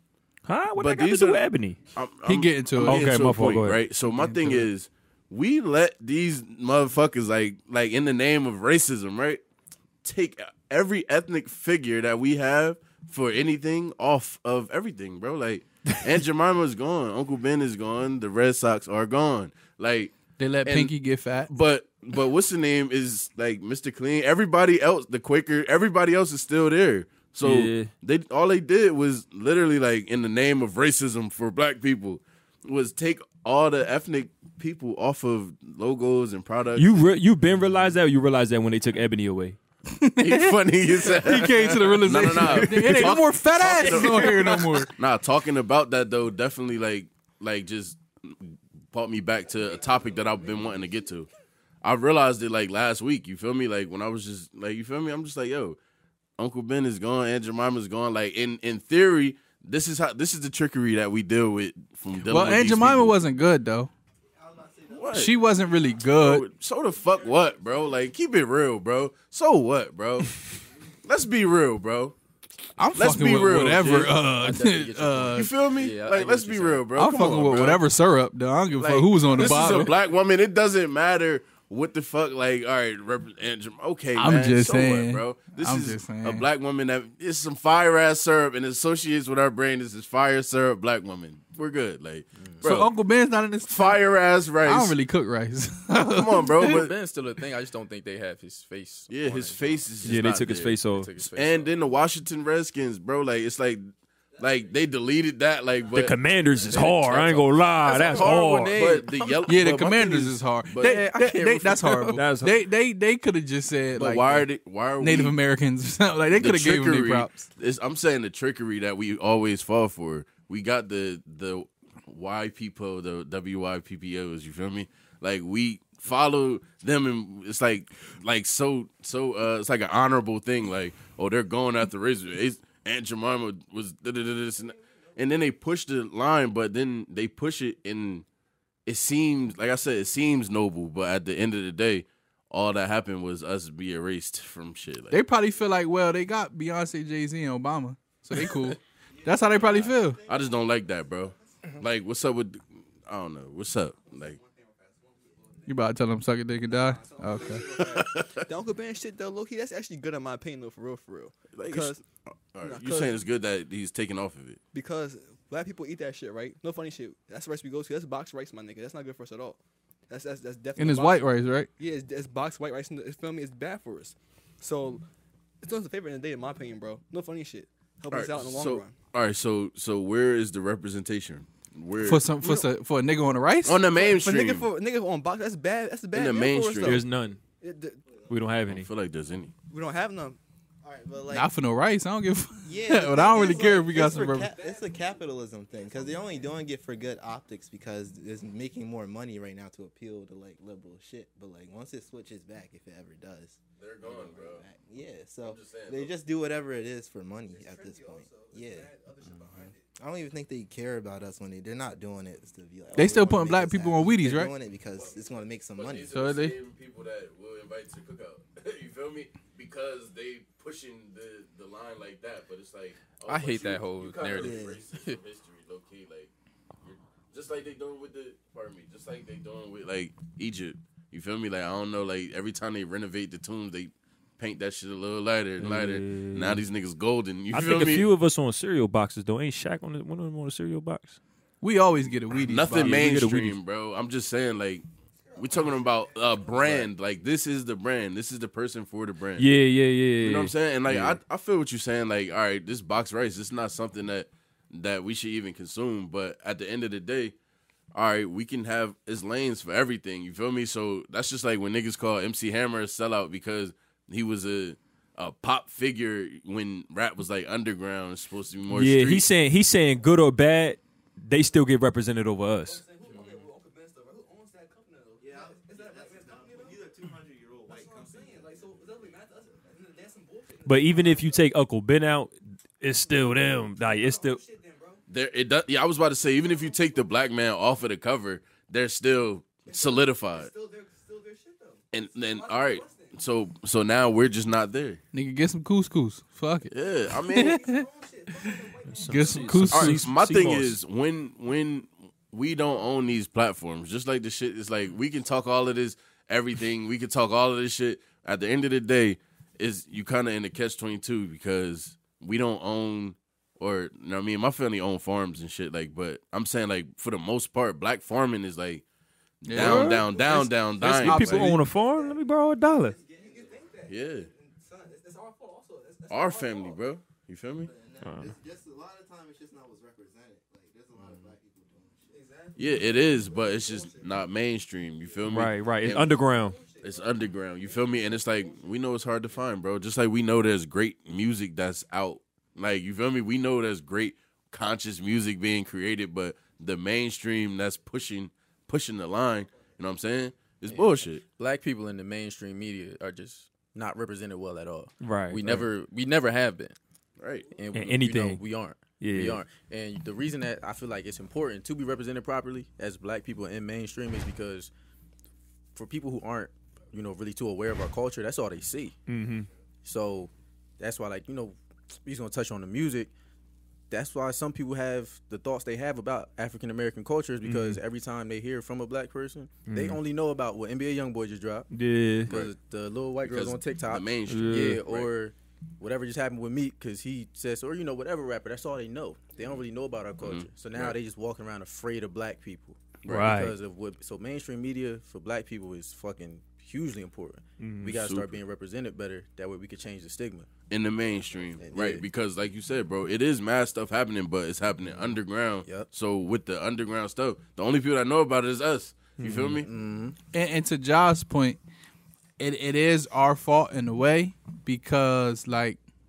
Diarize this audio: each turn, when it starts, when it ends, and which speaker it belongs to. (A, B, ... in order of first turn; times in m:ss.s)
0:00.5-0:01.8 A
0:00.8-0:01.4 B
0:01.9-0:09.4 B
0:02.2-0:03.3 C
0:02.8-0:03.8 A
0:04.1-0:04.7 C
0:10.0-0:20.9 B
0:20.4-0:21.5 C
0:21.5-0:37.0 B
0:27.4-0:27.9 A
0:36.8-0:39.6 A
0:39.9-0:44.9 C
0:40.2-0:51.3 B
0:51.8-0:55.8 B
0:56.4-1:03.2 B
1:02.2-1:03.9 C
1:04.5-1:05.0 D
1:04.9-1:05.4 B
1:05.1-1:06.4 C
1:06.1-1:12.2 B
1:12.8-1:15.5 C
1:13.0-1:14.2 B
1:14.4-1:16.9 E
1:15.3-1:17.8 B
1:16.9-1:20.0 C
1:18.8-1:32.9 B
1:24.2-1:26.5 C
1:32.6-1:34.0 C
1:33.7-1:35.0 B
1:34.6-1:36.8 C
1:36.1-1:36.9 B
1:36.6-1:40.2 E
1:39.1-1:51.0 B
1:40.0-1:41.1 A
1:40.8-1:41.7 E
1:45.9-1:48.8 A
1:46.7-1:49.4 E
1:49.4-1:54.5 C
1:50.8-1:52.2 E
1:52.1-1:52.6 A
1:54.0-1:55.4 B
1:55.0-1:57.4 C
1:56.4-2:18.2 B
2:18.9-2:25.2 B
2:25.1-2:30.2 C
2:30.3-2:34.4 B
2:35.3-2:35.6 F
2:35.7-2:37.7 C
2:36.8-2:42.0 F
2:37.7-2:38.5 B
2:41.6-2:44.6 B
2:42.6-2:43.2 F
2:44.7-2:51.3 F
2:50.8-2:51.7 C
2:51.8-2:55.0 F
2:55.6-2:59.0 F
2:58.1-3:02.5 B
3:02.0-3:03.8 C
3:03.6-3:04.7 B
3:03.9-3:07.0 F
3:06.1-3:07.0 B
3:06.8-3:07.4 A
3:07.6-3:08.0 F
3:08.3-3:08.9 A
3:08.7-3:09.5 B
3:09.7-3:10.4 F
3:10.8-3:11.5 D
3:11.3-3:14.5 C
3:12.6-3:36.1 D
3:13.4-3:15.1 F
3:15.8-3:16.5 F
3:23.8-3:24.6 B
3:25.4-3:26.2 B
3:27.5-3:29.8 F
3:32.9-3:34.5 C
3:35.7-3:46.3 B
3:36.1-3:36.6 C
3:43.3-3:45.2 E
3:44.3-3:44.8 D
3:46.8-3:58.1 B
3:55.6-3:56.6 A
3:57.5-4:01.2 A
4:01.6-4:03.1 C
4:02.4-4:04.8 B
4:02.7-4:03.6 A
4:05.4-4:09.5 B
4:09.4-4:11.1 A
4:10.2-4:17.4 B
4:17.9-4:29.3 B
4:28.7-4:32.8 A
4:32.7-4:36.8 F
4:35.2-4:39.1 D
4:37.7-4:41.4 F
4:40.6-4:44.4 A
4:43.8-4:45.0 F
4:45.1-4:50.5 B
4:49.7-4:53.1 F
4:51.9-4:55.0 B
4:55.1-5:00.0 C
4:56.7-4:57.7 B
4:57.4-4:59.6 F
4:58.9-5:00.8 A
4:59.7-5:18.8 B
5:19.4-5:21.5 B
5:19.4-5:21.6 C
5:19.5-5:20.0 A
5:20.8-5:23.0 A
5:22.9-5:26.8 F
5:23.2-5:23.6 D
5:23.9-5:24.3 B
5:26.1-5:27.7 B
5:27.6-5:32.2 D
5:28.0-5:28.3 A
5:32.1-5:34.1 F
5:32.6-5:36.2 B
5:35.3-5:36.6 A
5:36.4-5:37.1 F
5:36.8-5:51.2 B
5:37.7-5:38.5 F
5:50.7-5:56.8 E
5:55.0-5:55.6 A
5:57.2-5:57.5 B
5:57.5-6:04.7 E
5:57.7-5:58.4 A
5:59.0-5:59.4 A
6:05.8-6:09.0 E
6:09.1-6:09.5 A
6:09.8-6:13.1 E
6:13.9-6:21.7 E
6:17.4-6:17.8 A
6:19.7-6:20.0 A
6:21.7-6:22.3 A
6:22.3-6:40.5 E
6:23.2-6:25.1 B
6:24.3-6:24.8 A
6:30.2-6:31.0 B
6:33.1-6:33.5 A
6:37.6-6:37.9 A
6:37.9-6:38.4 B
6:40.7-6:49.7 B
6:41.6-6:42.0 E
6:44.8-6:45.9 E
6:49.2-6:49.6 A
6:49.5-6:50.2 E
6:50.3-6:51.6 C
6:52.4-6:55.8 C